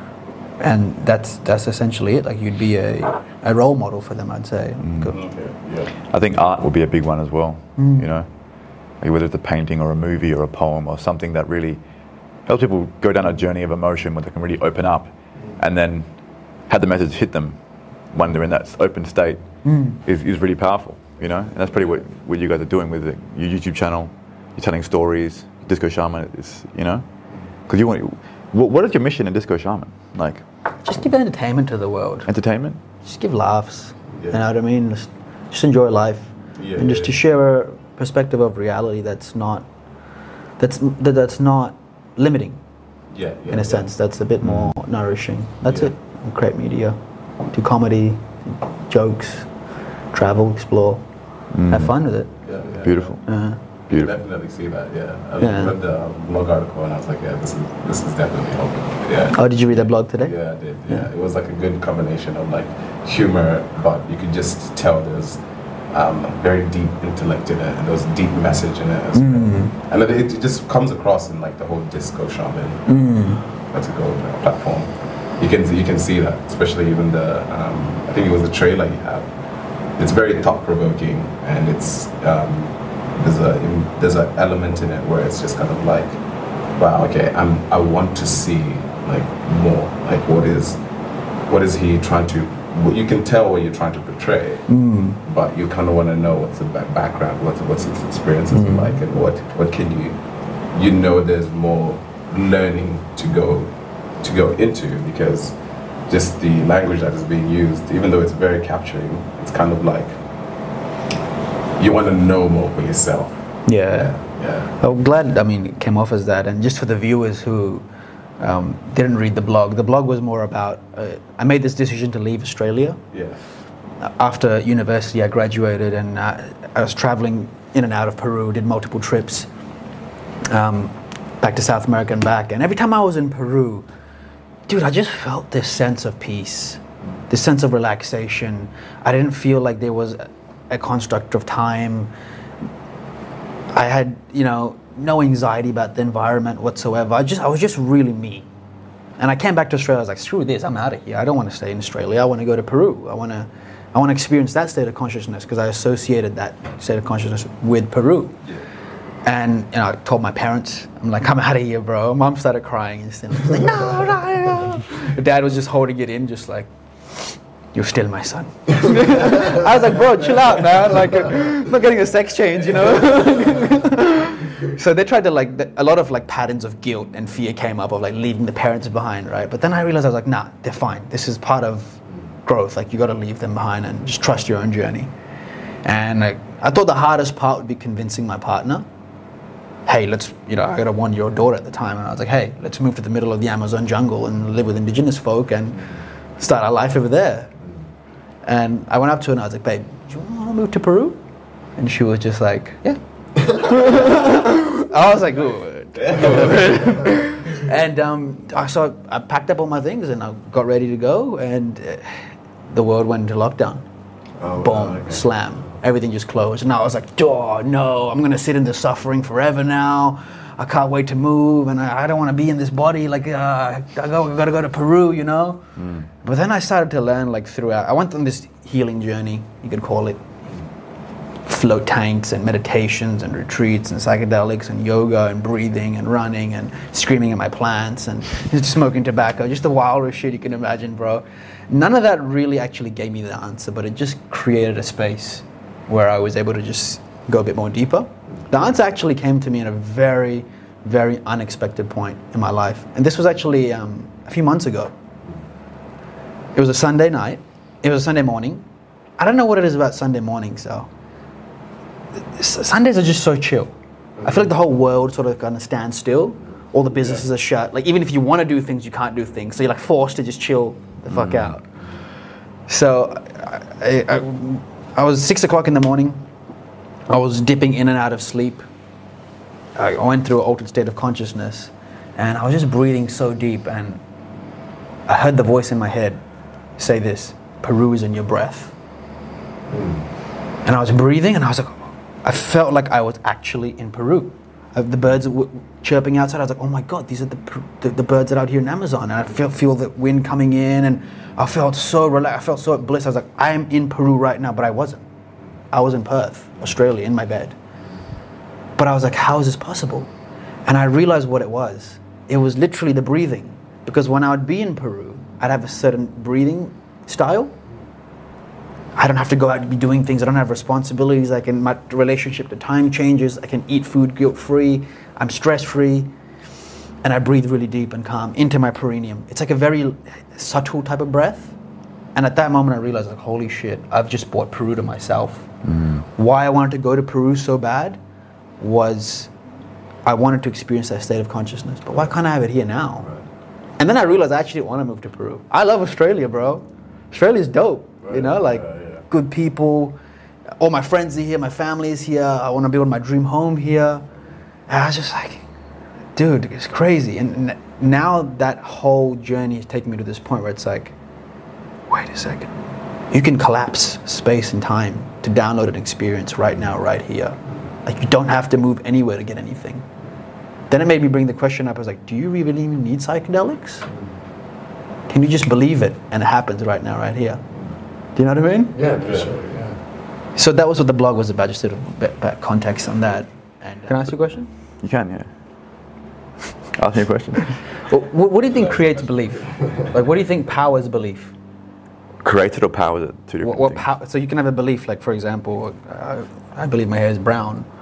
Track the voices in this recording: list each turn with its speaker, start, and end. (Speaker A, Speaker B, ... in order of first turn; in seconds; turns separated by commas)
Speaker A: 0.6-5.2, Speaker B: 4.8-5.2, Speaker C: 5.1-5.9, Speaker B: 6.1-8.3, Speaker A: 7.8-8.1, Speaker B: 9.0-11.8, Speaker B: 12.5-16.1, Speaker B: 16.7-17.6, Speaker B: 18.1-27.1, Speaker A: 19.6-20.0, Speaker B: 27.7-30.4, Speaker A: 30.8-32.3, Speaker B: 32.3-32.8, Speaker A: 33.0-39.7, Speaker C: 36.6-37.2, Speaker A: 40.6-42.6, Speaker C: 43.1-43.9, Speaker A: 43.5-47.0, Speaker B: 44.4-44.8, Speaker C: 45.6-46.0, Speaker A: 47.5-49.5, Speaker A: 50.1-51.0, Speaker B: 51.5-52.0, Speaker A: 51.7-52.3, Speaker C: 52.4-53.1, Speaker B: 52.8-53.2, Speaker A: 53.2-53.6, Speaker C: 54.0-65.4, Speaker A: 55.4-55.8, Speaker A: 59.3-60.4, Speaker C: 65.9-73.0, Speaker A: 69.2-69.7, Speaker A: 72.9-73.4, Speaker C: 73.7-79.3, Speaker C: 80.0-86.2, Speaker C: 86.8-90.8, Speaker C: 91.5-94.7, Speaker A: 94.7-95.2, Speaker C: 95.2-100.2, Speaker A: 98.5-99.0, Speaker C: 100.7-105.6, Speaker C: 106.1-110.2, Speaker C: 111.8-114.7, Speaker A: 113.7-117.9, Speaker A: 118.4-123.0, Speaker C: 123.1-123.4, Speaker A: 124.0-129.5, Speaker A: 130.5-133.9, Speaker A: 134.7-142.1, Speaker A: 143.7-148.5, Speaker A: 149.2-158.4, Speaker A: 159.2-185.1, Speaker A: 185.8-188.9, Speaker A: 189.9-197.5, Speaker A: 198.4-201.2, Speaker A: 201.8-212.2, Speaker C: 206.1-206.7, Speaker A: 212.7-213.8, Speaker D: 214.4-215.2, Speaker A: 214.6-225.6, Speaker C: 214.8-215.2, Speaker B: 225.8-226.1, Speaker A: 226.2-230.2, Speaker A: 231.5-254.9, Speaker A: 256.6-258.7, Speaker A: 259.2-260.9, Speaker A: 262.3-271.6, Speaker B: 271.1-271.6, Speaker A: 272.7-276.2, Speaker A: 277.1-278.7, Speaker A: 279.8-284.0, Speaker A: 285.1-286.2, Speaker A: 286.8-288.7, Speaker D: 289.7-290.0, Speaker A: 290.6-305.0, Speaker A: 305.7-307.6, Speaker A: 308.8-310.1, Speaker A: 310.7-317.5, Speaker A: 319.0-326.1, Speaker A: 327.0-331.6, Speaker A: 332.1-335.5, Speaker B: 335.6-336.0, Speaker A: 336.2-338.0, Speaker A: 338.6-339.3, Speaker A: 340.1-343.1, Speaker A: 343.8-350.0, Speaker C: 348.1-349.0, Speaker A: 350.6-354.1, Speaker A: 354.7-355.4, Speaker A: 356.2-360.9, Speaker A: 361.9-362.5, Speaker A: 363.1-369.9, Speaker A: 370.7-373.9, Speaker A: 375.1-377.4, Speaker A: 378.2-378.8, Speaker D: 378.7-379.8, Speaker C: 379.0-379.3, Speaker A: 380.4-384.5, Speaker B: 384.8-385.3, Speaker B: 386.7-387.6, Speaker A: 387.8-391.3, Speaker B: 392.2-393.8, Speaker A: 393.4-397.7